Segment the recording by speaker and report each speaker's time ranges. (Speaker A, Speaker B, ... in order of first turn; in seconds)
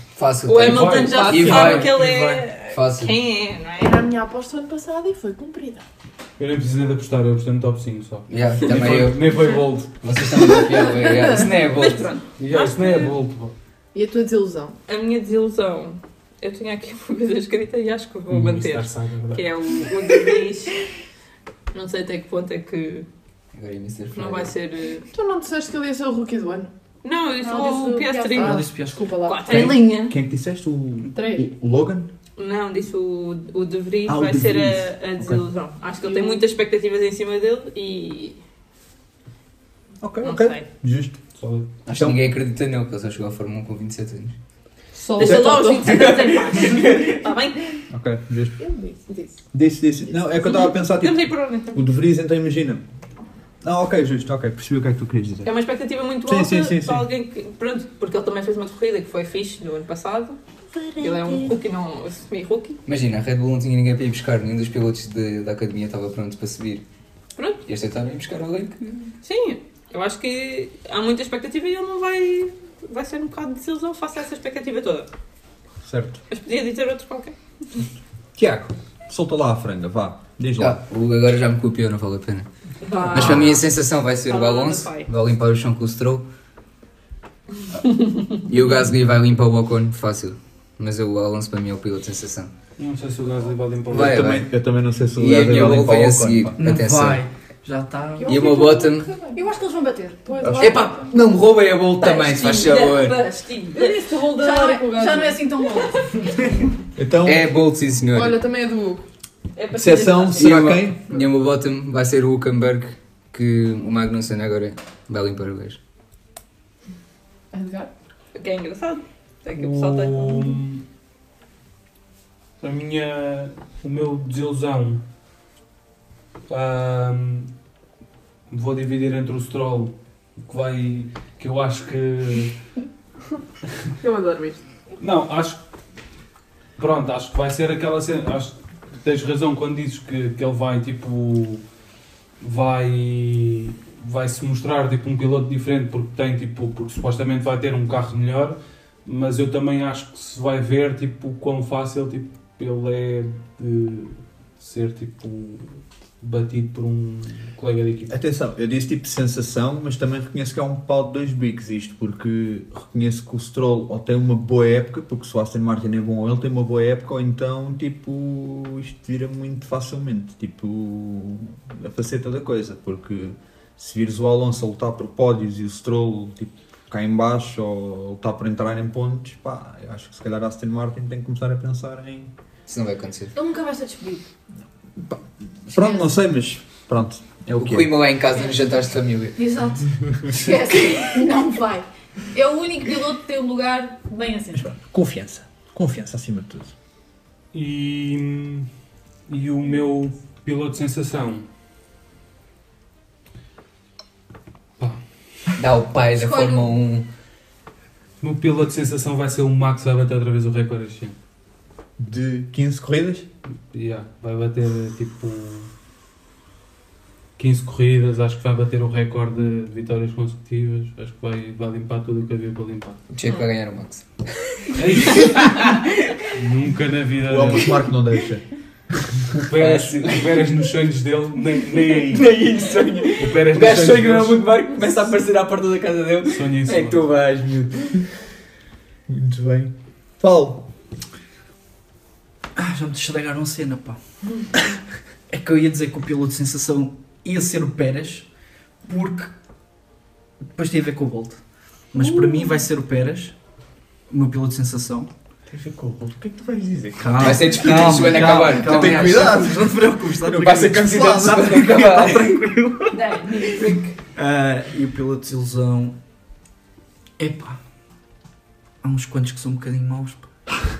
Speaker A: 0.2-2.1, 2.6-3.2, 8.3-9.3, 10.0-12.1, 23.5-24.5, 41.9-44.4, 46.0-47.2, 62.9-66.8, 67.7-68.8, 80.6-82.5, 83.1-86.3, 88.5-92.5, 93.9-94.4, 95.2-97.2, 98.2-99.2, 100.6-103.2, 107.2-108.4, 110.4-115.8, 182.7-183.3, 187.6-189.4, 205.6-207.1, 223.1-224.1, 225.0-225.8, 229.6-230.5, 231.9-237.9, 257.2-259.3, 260.7-262.4
Speaker B: 0.5-4.0, 11.3-13.1, 14.9-20.8, 21.7-23.1, 24.1-25.1, 27.0-28.7, 29.2-30.1, 32.4-38.4, 40.2-40.6, 45.2-47.8, 50.5-51.8, 55.5-60.4, 61.0-62.8, 69.2-75.1, 76.3-77.4, 82.8-83.7, 84.3-85.1, 102.0-103.9, 109.6-110.7, 118.3-120.6, 262.9-263.9
Speaker C: 0.6-2.4, 6.4-10.1, 12.4-13.5, 18.3-19.4, 41.4-41.7, 92.8-94.5, 119.5-120.8, 122.6-125.0, 126.5-127.5, 128.5-132.6, 135.0-135.6, 136.8-141.6, 142.4-158.2, 197.5-198.7, 199.3-201.5, 208.2-211.2, 213.7-215.7, 217.4-223.0, 224.7-225.7, 226.3-227.8, 229.4-232.3, 233.2-234.4, 236.3-237.0
Speaker D: 3.8-5.9, 13.9-14.8, 25.1-26.7, 27.5-29.8, 31.1-31.4, 36.0-36.4, 44.9-46.3, 48.6-49.4, 82.9-83.4, 98.2-99.4, 100.2-101.1, 103.7-105.5, 108.1-109.0, 117.5-117.9, 134.0-134.6, 252.0-252.5
Speaker E: 27.5-28.4, 99.3-100.4, 104.2-106.0, 183.3-184.3, 185.8-186.1, 189.4-194.7, 206.1-206.7
Speaker F: 28.4-29.1, 96.6-98.6, 242.6-244.0, 245.3-248.3, 248.8-249.3, 250.5-251.4, 251.9-253.3, 254.1-255.1, 257.0-266.0, 267.2-267.6, 268.8-270.3
Speaker G: 29.5-32.1, 34.1-35.4, 40.0-41.2, 41.9-42.3, 45.2-45.5, 47.9-48.6, 49.5-52.8, 53.6-55.5, 56.2-57.1, 75.8-76.2, 78.4-80.8, 93.9-96.6, 100.4-100.8, 107.0-107.5, 109.8-111.2, 158.1-182.3, 185.0-188.0, 194.5-196.7, 212.0-213.3, 227.3-228.4, 239.1-240.7, 255.5-262.0